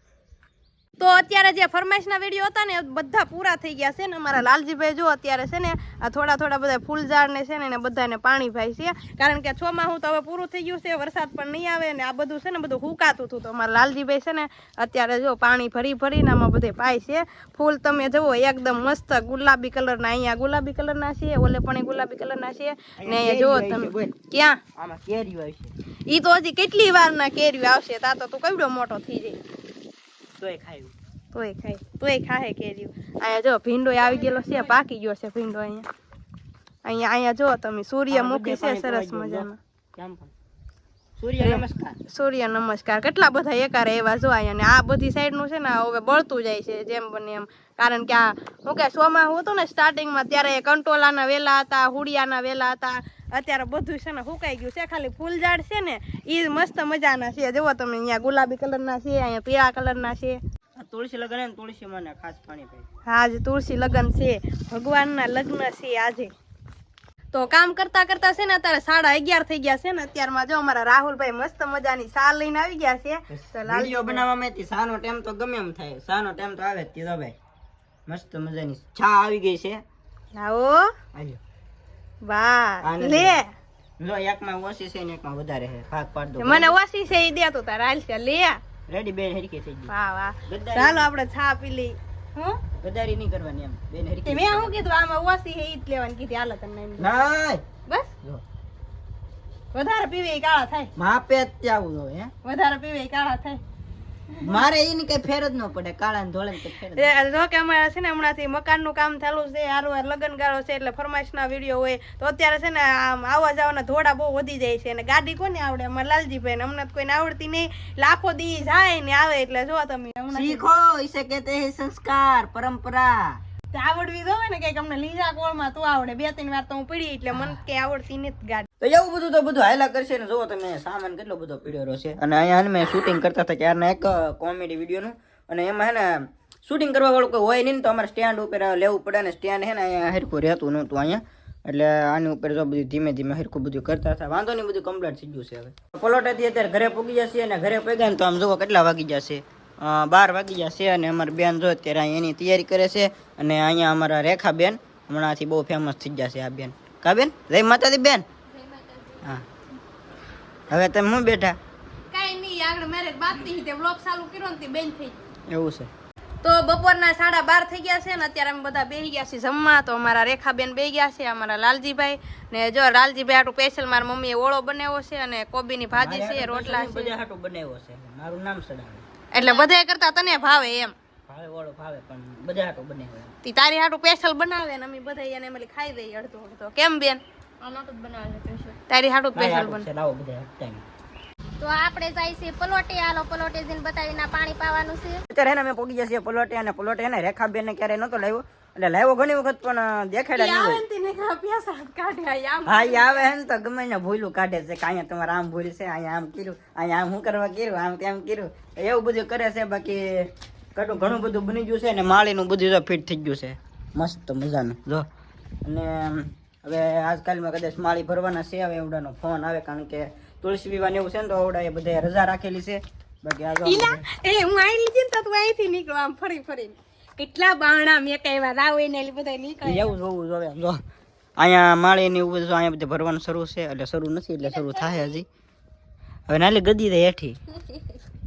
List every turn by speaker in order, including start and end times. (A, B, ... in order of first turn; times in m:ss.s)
0:01.0-0:24.6 A
0:23.0-0:24.2 B
0:24.8-0:25.7 B
0:26.1-0:29.4 A
0:30.4-0:30.9 B
0:31.3-0:35.9 A
0:36.8-0:39.6 A
0:38.1-0:40.3 B
0:41.2-0:42.0 B
0:41.4-1:00.4 A
1:00.8-1:02.8 B
1:03.1-1:06.3 A
1:07.3-1:14.2 A
1:13.3-1:17.3 B
1:18.1-1:19.8 B
1:20.3-1:20.9 A
1:21.1-1:21.4 B
1:22.2-1:23.5 A
1:22.8-1:23.4 B
1:24.0-1:26.7 B
1:26.4-1:28.6 A
1:28.9-1:29.9 B
1:29.9-1:32.6 A
1:30.5-1:31.1 B
1:32.8-1:34.7 B
1:34.2-1:37.1 A
1:37.0-1:37.6 B
1:39.7-1:40.9 A
1:41.0-1:42.3 B
1:42.4-1:43.6 A
1:44.4-1:47.1 B
1:46.9-2:00.7 A
2:00.3-2:03.4 B
2:03.7-2:08.7 A
2:08.8-2:38.2 B
2:38.6-2:39.0 C
2:40.7-2:41.6 B
2:42.1-2:45.2 A
2:45.5-2:45.9 B
2:46.4-2:57.1 A
2:55.9-2:59.0 B
2:59.3-3:00.9 A
2:59.3-2:59.7 C
3:00.3-3:00.7 C
3:01.3-3:03.3 B
3:03.4-3:07.2 A
3:07.6-3:08.8 C
3:08.9-3:09.8 A
3:09.3-3:10.8 B
3:11.6-3:15.2 C
3:15.3-3:20.8 B
3:20.3-3:23.2 A
3:22.6-3:35.0 B
3:35.6-3:44.0 B
3:43.6-3:50.0 A
3:49.6-3:50.8 B
3:51.4-3:55.3 B
3:54.4-3:55.2 C
3:56.3-3:57.4 B